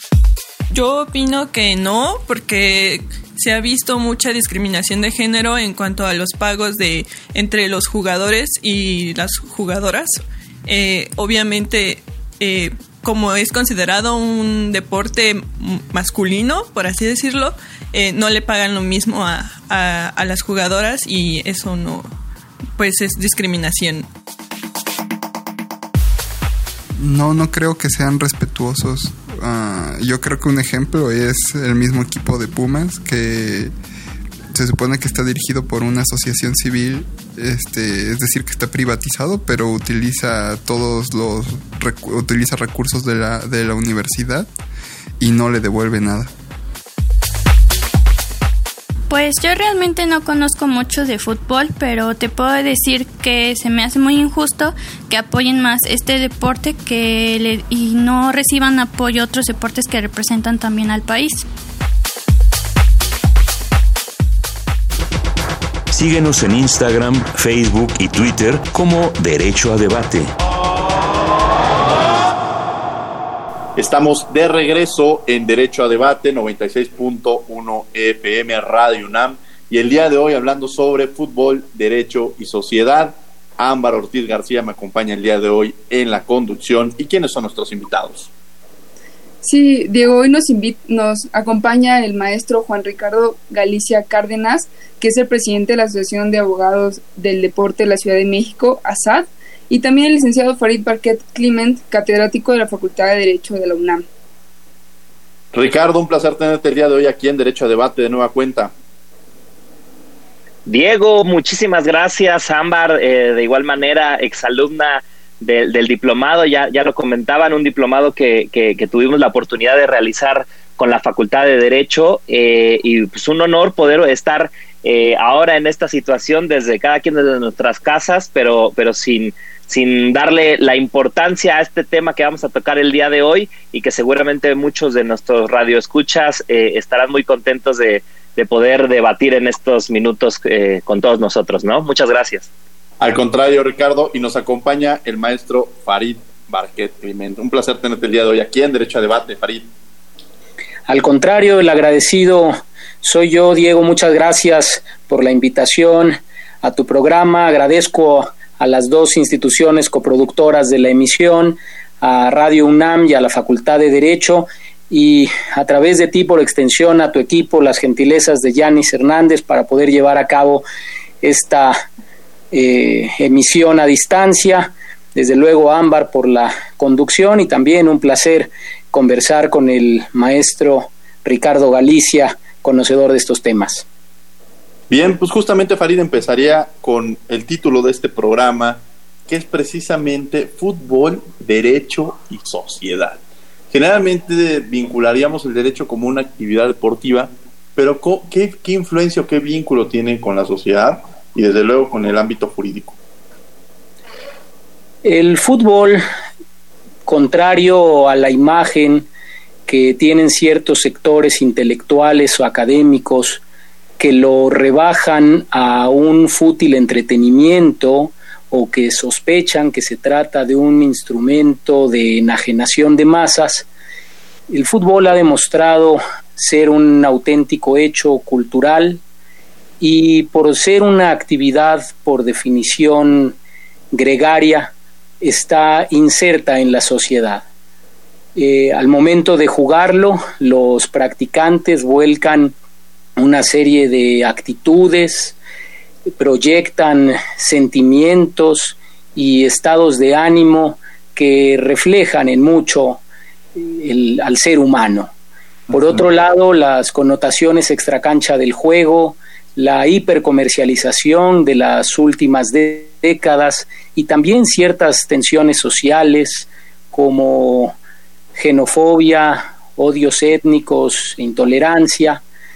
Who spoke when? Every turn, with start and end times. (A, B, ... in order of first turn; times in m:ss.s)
0:00.7-0:22.1 A
0:22.8-0:24.1 A
0:27.0-0:33.7 B
0:34.5-0:44.5 B
0:45.2-0:46.3 B
0:49.1-1:01.4 C
1:05.9-1:10.3 D
1:13.8-1:28.3 E
1:29.4-1:44.1 F
1:45.5-1:48.7 E
1:50.7-2:22.5 G
2:23.0-2:29.7 E
2:30.9-2:50.6 H
2:51.2-2:51.8 H
2:52.5-3:03.8 H
3:04.9-3:13.2 E
3:13.7-3:23.0 E
3:25.0-3:26.0 H
3:27.1-3:29.1 H
3:29.7-3:33.4 H
3:34.0-3:43.7 H
3:44.5-3:49.0 H
3:49.8-3:53.4 H
3:53.9-3:57.4 H
3:58.4-4:02.6 H
4:03.2-4:05.4 H
4:06.1-4:13.0 H
4:13.6-4:15.1 H
4:15.7-4:27.8 H
4:28.4-4:32.2 H